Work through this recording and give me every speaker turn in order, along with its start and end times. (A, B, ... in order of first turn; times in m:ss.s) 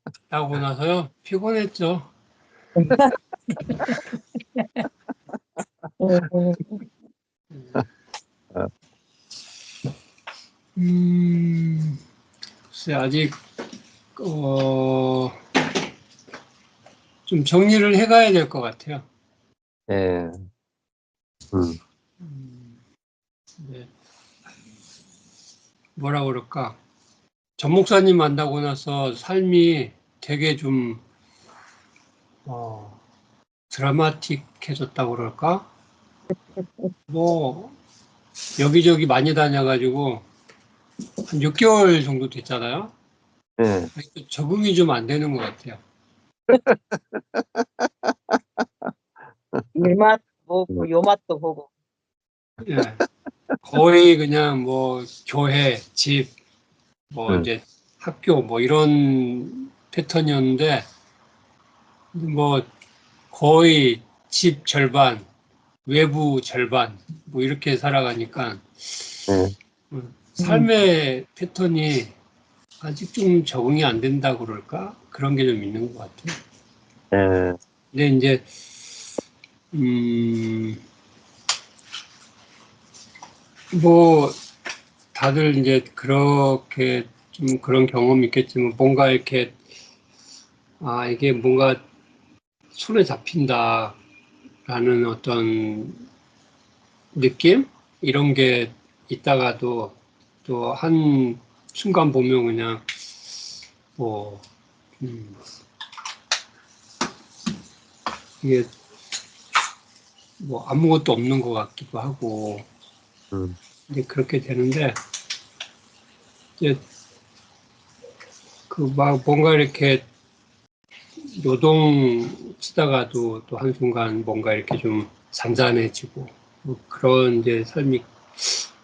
0:00.3-0:02.1 A
0:06.0-0:06.8 B
0:10.8-0:12.0 A
0:12.7-0:13.4 A
0:14.2-0:15.4 A
0:17.2-0:19.0 A
0:19.9-0:20.4 C
0:21.5-0:21.8 C
0:22.2-0:22.8 A
0:23.6-0:23.9 A
0:26.0-0:26.8 A
0:27.6-0:31.0 A
0:32.4-0:33.0 A
0:33.7-0:35.7 A
0:36.6-0:36.9 B
0:37.1-0:37.7 A
0:38.6-0:40.2 A
0:41.3-0:42.9 A
0:43.6-0:43.9 C
0:43.9-0:45.8 A
0:46.5-0:48.9 C
0:49.8-0:51.7 B
0:52.6-0:53.0 A
0:53.6-0:56.3 A
0:57.1-1:00.8 A
1:02.1-1:02.7 A
1:03.3-1:05.2 A
1:05.8-1:09.3 A
1:09.3-1:09.5 C
1:09.9-1:12.1 A
1:12.8-1:16.4 A
1:17.1-1:17.6 C
1:17.9-1:18.5 A
1:19.7-1:20.8 A
1:23.7-1:24.4 A
1:25.1-1:29.6 A
1:30.8-1:31.8 A
1:32.7-1:34.0 A
1:34.6-1:36.0 A
1:37.1-1:42.9 A
1:44.0-1:44.4 A
1:45.0-1:45.4 A
1:48.4-1:48.7 A
1:50.4-1:52.7 A
1:53.9-1:55.0 A
1:56.6-1:56.8 A
1:58.7-2:00.0 A
2:01.2-2:08.7 A